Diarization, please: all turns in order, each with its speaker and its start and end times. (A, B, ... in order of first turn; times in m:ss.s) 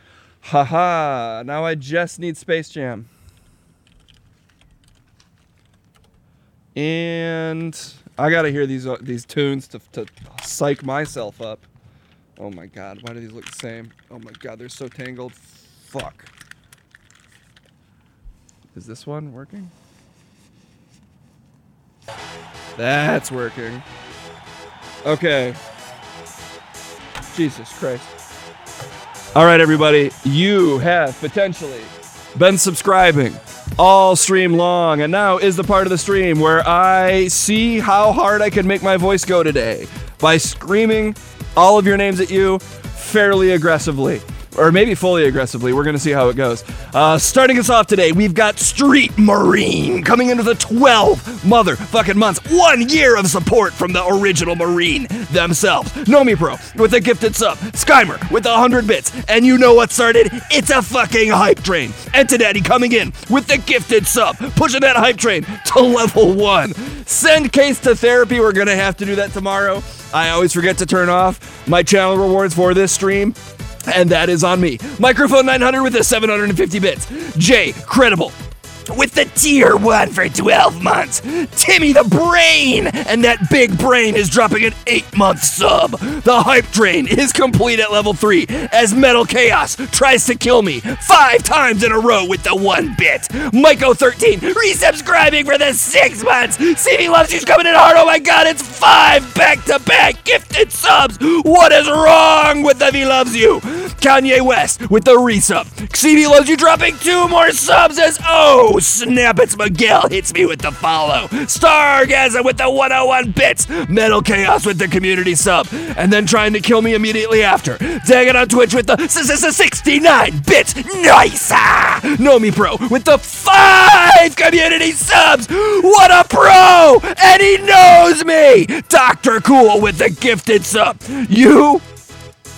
0:00.4-0:03.1 A
0:06.7-0:11.6 A
0:12.4-0:16.3 A
0:18.7-0:19.7 A
0:22.8-0:23.8 A
0:25.0-0:25.6 A
0:27.3-0:28.1 A
0:29.3-1:13.4 A
1:13.9-1:18.4 A
1:18.9-2:11.8 A